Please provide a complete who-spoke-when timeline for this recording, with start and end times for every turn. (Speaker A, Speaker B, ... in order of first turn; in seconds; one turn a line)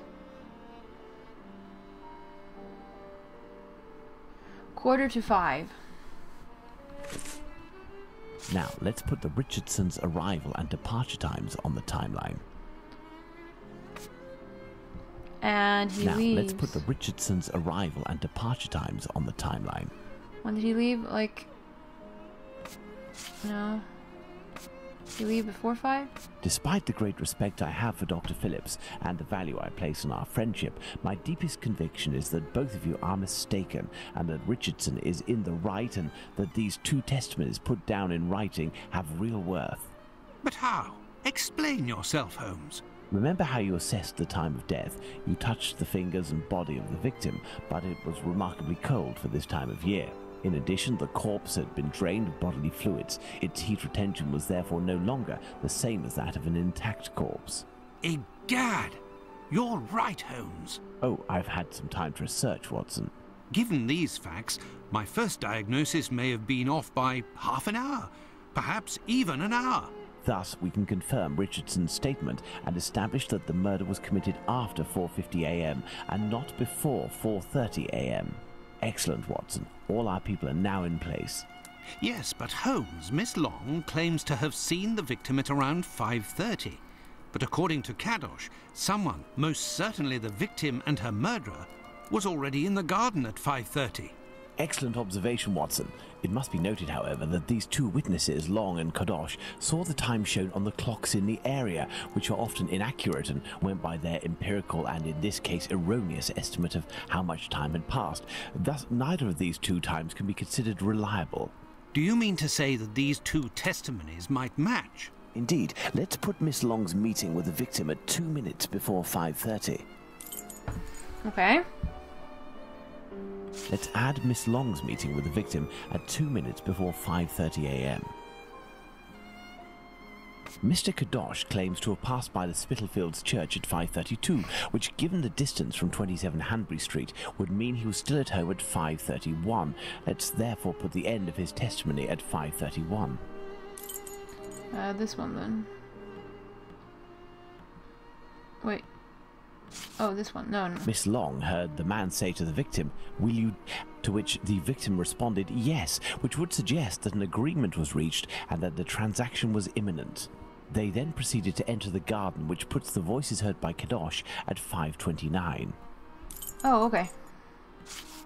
Speaker A: 4.8-5.8
Speaker B: 8.5-12.4
Speaker A: 15.4-16.8
Speaker B: 16.0-19.9
Speaker A: 20.4-21.5
Speaker A: 23.4-23.9
Speaker A: 25.2-26.1
Speaker B: 26.4-39.9
Speaker C: 40.4-42.8
Speaker B: 43.1-57.6
Speaker C: 58.0-59.0
Speaker C: 59.5-60.8
Speaker B: 61.0-63.1
Speaker C: 63.5-69.9
Speaker B: 70.2-81.5
Speaker C: 82.0-86.8
Speaker C: 87.3-94.2
Speaker B: 94.6-111.5
Speaker C: 111.9-115.1
Speaker B: 115.3-119.9
Speaker A: 121.2-121.7
Speaker B: 123.7-128.1
Speaker B: 130.6-143.2
Speaker A: 144.7-145.7
Speaker A: 150.0-150.9
Speaker B: 150.8-165.8
Speaker A: 166.6-167.1